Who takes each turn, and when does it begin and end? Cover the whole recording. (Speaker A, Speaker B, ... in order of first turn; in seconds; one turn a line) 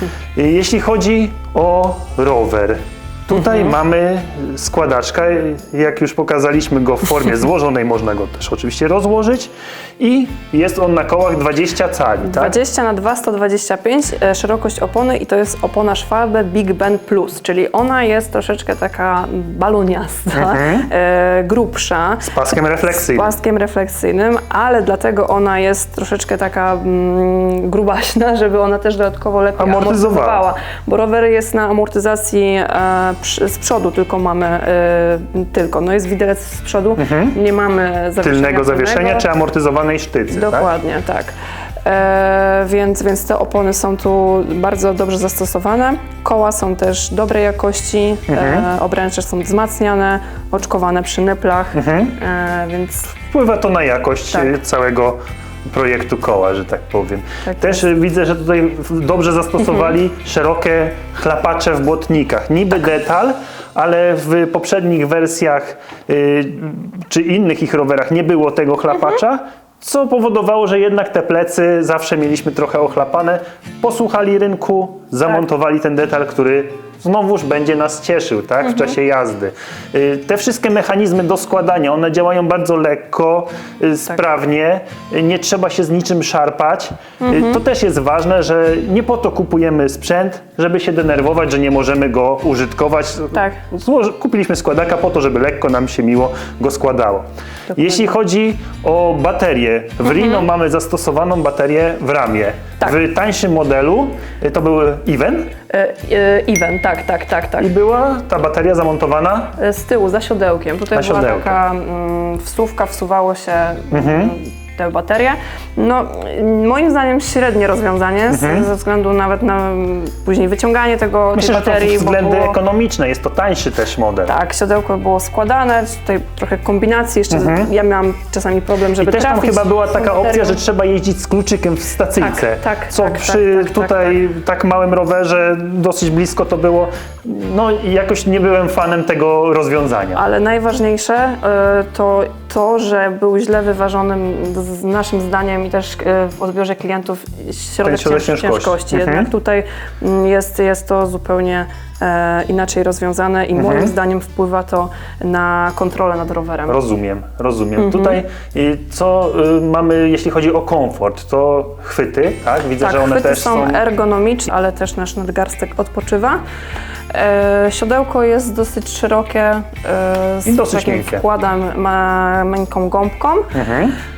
Speaker A: 0.3-12.6
Speaker B: 12.2-39.3
Speaker A: 20.3-20.9
Speaker A: 22.2-23.3
Speaker A: 29.6-30.4
Speaker A: 37.0-37.4
Speaker A: 38.2-40.7
Speaker B: 40.3-53.2
Speaker A: 48.3-48.7
Speaker A: 51.7-52.1
Speaker A: 53.3-105.5
Speaker B: 54.3-54.6
Speaker B: 57.5-57.8
Speaker B: 87.2-87.6
Speaker B: 93.3-93.6
Speaker B: 97.7-98.1
Speaker B: 100.1-100.4
Speaker B: 105.7-107.7
Speaker A: 107.6-109.5
Speaker B: 109.6-122.6
Speaker A: 110.9-111.6
Speaker A: 113.9-114.3
Speaker A: 118.3-118.7
Speaker A: 121.3-124.3
Speaker B: 124.3-130.6
Speaker A: 127.3-127.7
Speaker A: 129.0-140.2
Speaker B: 132.2-134.2
Speaker B: 140.1-156.8
Speaker A: 147.8-149.3
Speaker A: 153.5-153.9
Speaker A: 156.7-163.8
Speaker B: 157.8-158.2
Speaker B: 162.8-166.4
Speaker B: 167.1-173.5
Speaker A: 170.4-171.2
Speaker A: 173.5-174.0